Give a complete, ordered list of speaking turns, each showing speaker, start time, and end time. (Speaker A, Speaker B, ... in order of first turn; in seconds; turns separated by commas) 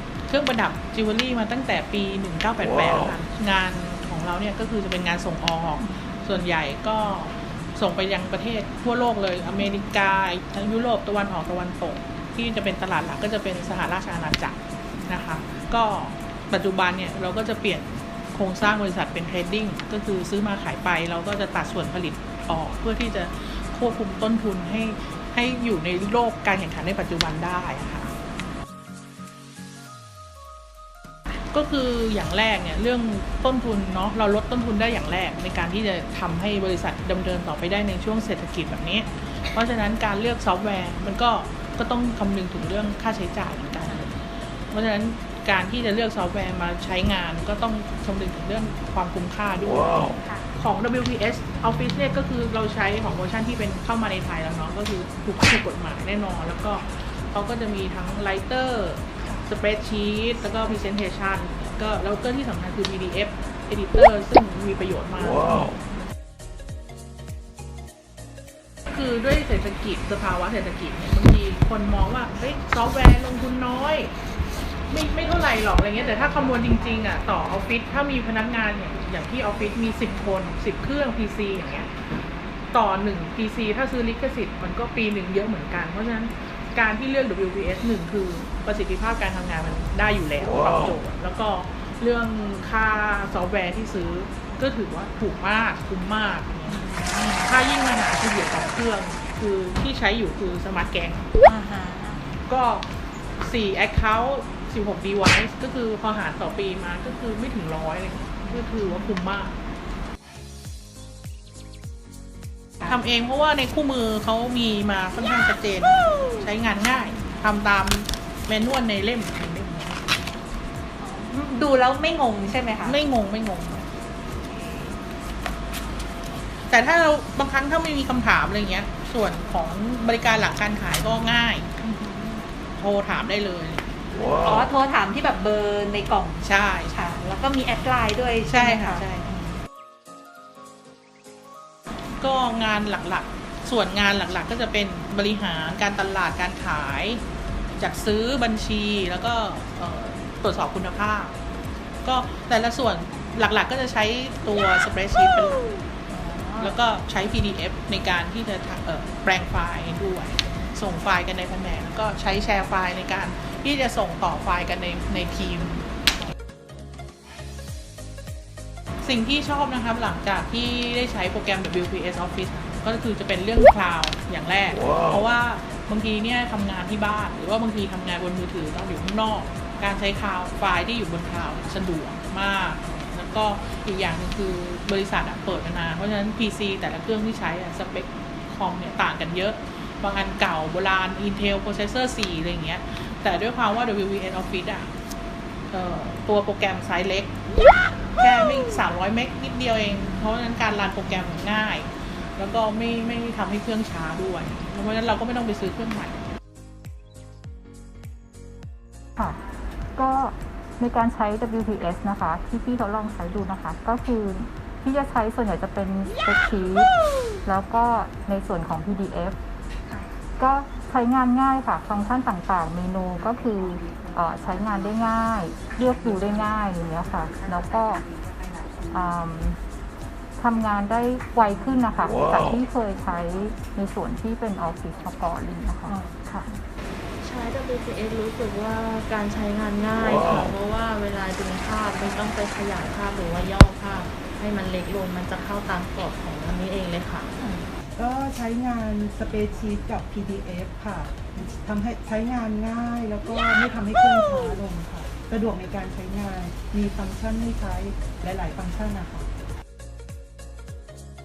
Speaker A: 0.3-28.1, Speaker A: 31.5-65.8, Speaker A: 68.9-74.1, Speaker A: 74.9-81.9, Speaker A: 82.7-101.3, Speaker B: 96.7-97.4, Speaker B: 101.4-102.3, Speaker A: 102.5-102.9, Speaker A: 103.4-109.6, Speaker A: 112.8-120.0, Speaker B: 121.0-123.0, Speaker A: 122.8-123.9, Speaker A: 126.7-131.7, Speaker B: 131.8-132.4, Speaker A: 132.8-134.7, Speaker B: 134.3-139.0, Speaker A: 136.4-137.1, Speaker A: 138.4-139.3, Speaker A: 142.2-147.2, Speaker A: 147.8-151.4, Speaker A: 152.0-155.7, Speaker B: 156.1-156.7, Speaker A: 156.6-165.9, Speaker A: 169.0-194.9, Speaker A: 195.7-197.3, Speaker A: 198.2-206.2, Speaker C: 209.9-216.9, Speaker C: 217.4-219.3, Speaker C: 220.4-228.1, Speaker C: 228.9-229.6, Speaker C: 230.4-236.5, Speaker D: 237.2-247.4, Speaker E: 248.0-259.3